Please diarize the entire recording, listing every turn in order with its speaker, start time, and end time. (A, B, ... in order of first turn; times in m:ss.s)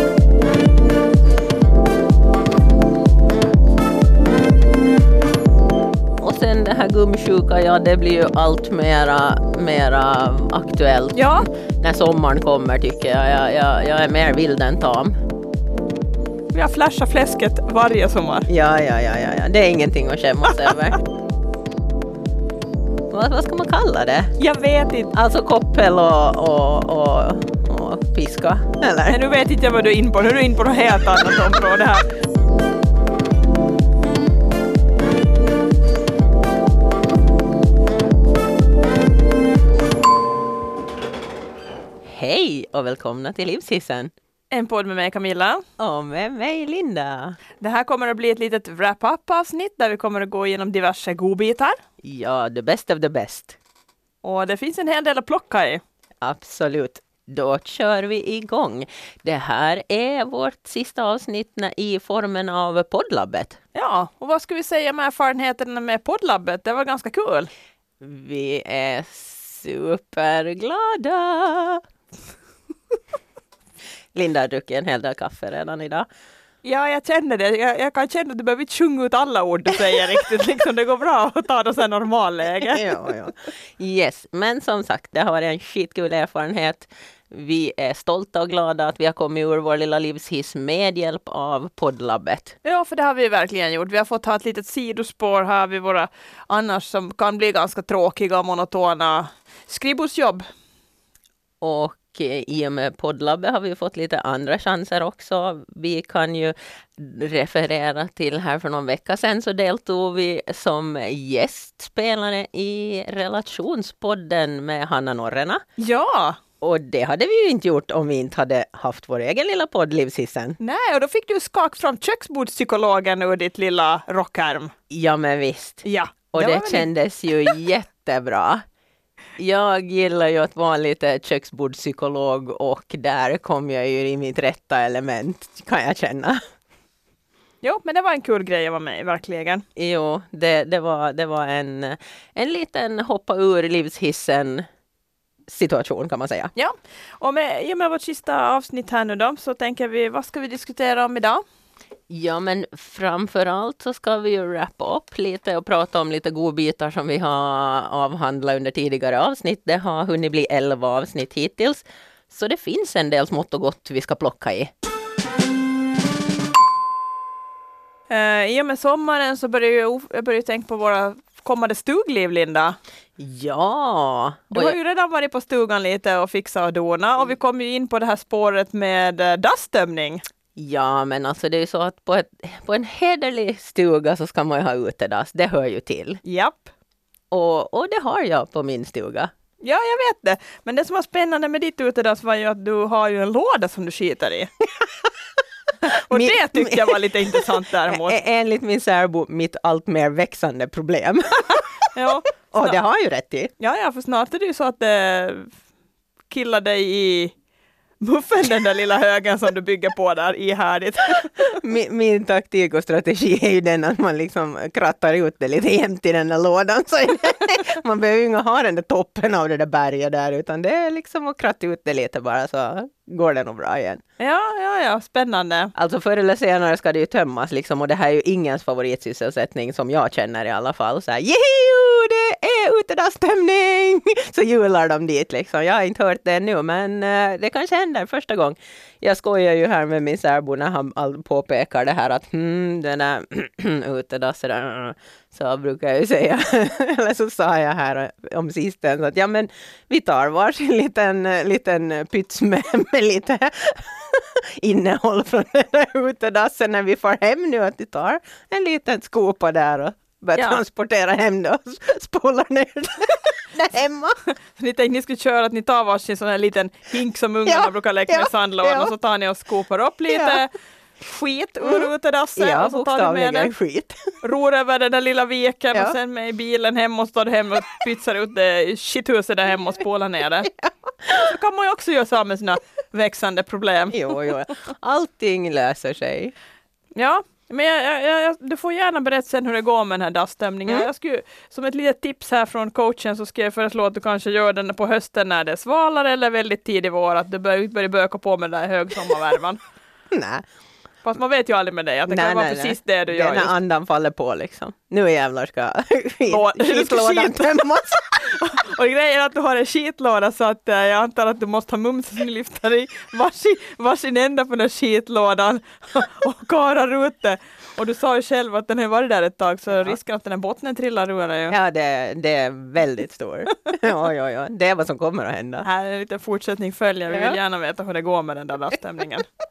0:06.2-0:11.2 A
0:11.1-0:11.5 B
0:11.8-0:15.2 A
0:16.5-0:18.5 B
0:18.5-0:21.0 A
0:23.1-0:24.3 A
0:24.4-0:25.1 B
0:25.1-0:29.2 A
0:29.1-0:32.1 B
0:42.0-0:44.1 A
0:44.5-0:45.6 B
0:45.8-0:47.4 A
0:47.6-0:51.8 B
0:52.0-0:53.6 A
0:54.2-0:55.8 B
0:56.2-1:03.6 A
1:03.8-1:07.5 B
1:08.0-1:11.8 A
1:14.1-1:16.1 A
1:16.6-1:22.9 B
1:22.6-1:32.6 A
1:32.6-1:40.5 B
1:41.6-1:55.6 A
1:55.8-1:56.4 B
1:56.6-2:00.6 A
2:00.6-2:04.7 B
2:04.9-2:08.6 A
2:05.8-2:06.9 B
2:09.4-2:16.4 A
2:17.6-2:19.6 B
2:19.8-2:24.7 A
2:25.5-2:26.5 A
2:26.6-2:31.4 B
2:32.1-2:44.7 A
2:48.1-2:52.8 B
2:53.2-2:54.8 A
2:54.5-3:00.2 B
3:00.6-3:06.2 A
3:06.2-3:06.7 B
3:07.3-3:09.3 A
3:09.6-3:14.5 B
3:15.8-3:21.7 A
3:15.9-3:18.2 B
3:21.9-3:22.8 B
3:22.5-3:23.5 A
3:23.6-3:25.5 B
3:26.3-3:27.3 B
3:28.0-3:31.6 B
3:31.4-3:44.0 A
3:44.2-3:45.7 B
3:45.8-4:24.2 A
4:20.4-4:20.6 B
4:24.6-4:33.5 B
4:27.5-4:28.9 A
4:30.1-4:30.4 A
4:31.6-4:34.0 A
4:34.2-4:40.5 B
4:40.5-4:41.3 A
4:41.1-4:44.2 B
4:43.9-4:46.3 A
4:47.0-4:59.6 B
5:00.1-5:00.4 A
5:01.0-5:03.5 B
5:02.1-5:08.4 A
5:06.3-5:07.5 B
5:08.2-5:21.6 B
5:21.5-5:25.7 A
5:25.6-5:29.2 B
5:27.1-5:27.4 A